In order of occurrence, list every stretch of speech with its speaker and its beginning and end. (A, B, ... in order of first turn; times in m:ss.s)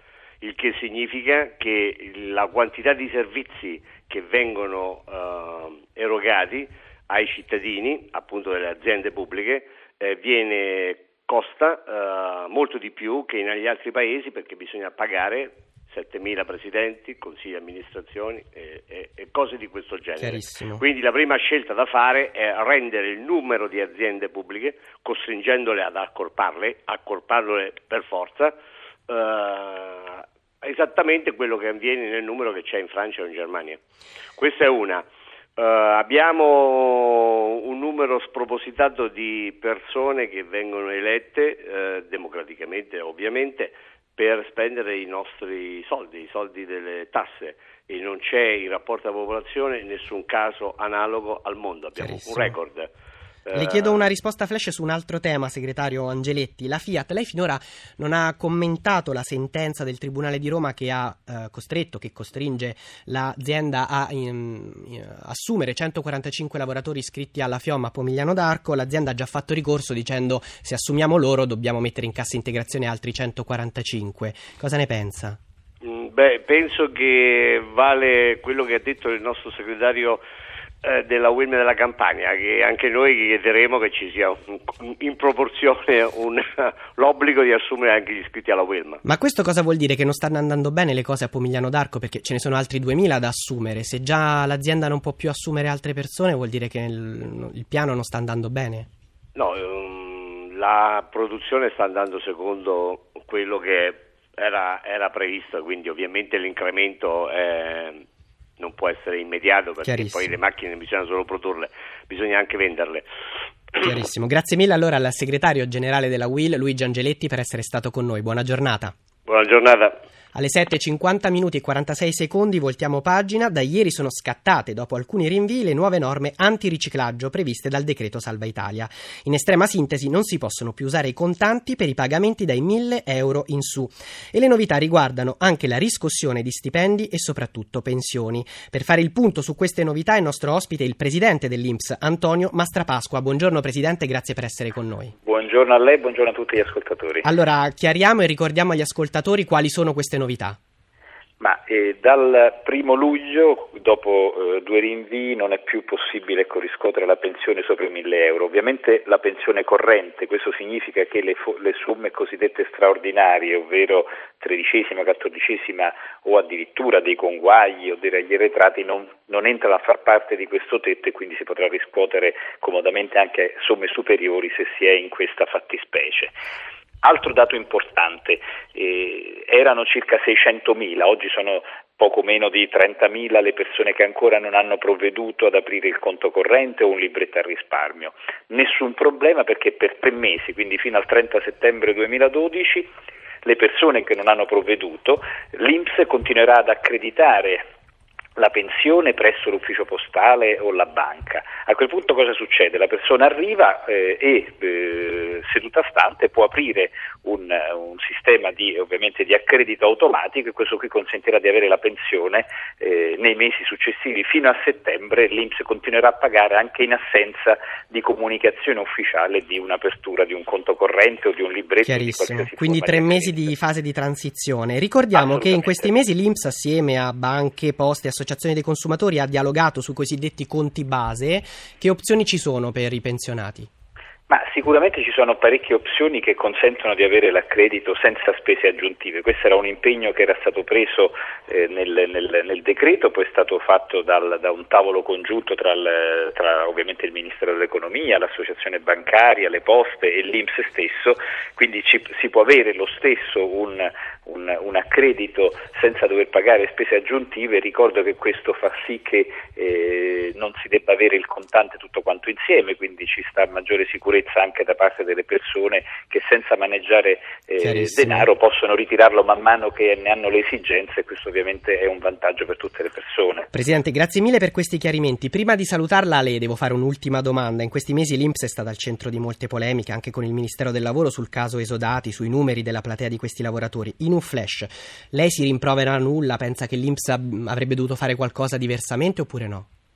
0:00.4-0:28.5 A
0:20.2-0:20.8 B
0:29.1-0:33.8 A
0:34.4-0:52.9 A
0:52.0-0:52.5 B
0:53.4-0:54.1 A
0:53.5-1:15.4 B
1:15.8-1:20.2 A
1:20.8-1:29.0 A
1:29.0-1:38.9 B
1:39.3-1:48.0 A
1:48.6-1:53.0 A
1:49.8-1:50.3 B
1:53.8-1:58.9 B
1:59.2-2:00.0 A
2:00.3-2:25.1 B
2:25.2-2:27.2 C
2:27.2-2:30.6 B
2:31.4-2:56.3 C
2:57.0-3:12.9 C
3:13.4-3:17.6 C
3:18.4-3:43.5 C
3:41.8-3:53.7 B
3:45.1-3:45.9 C
3:54.3-4:33.5 C
4:27.6-4:28.3 B
4:33.5-4:49.7 B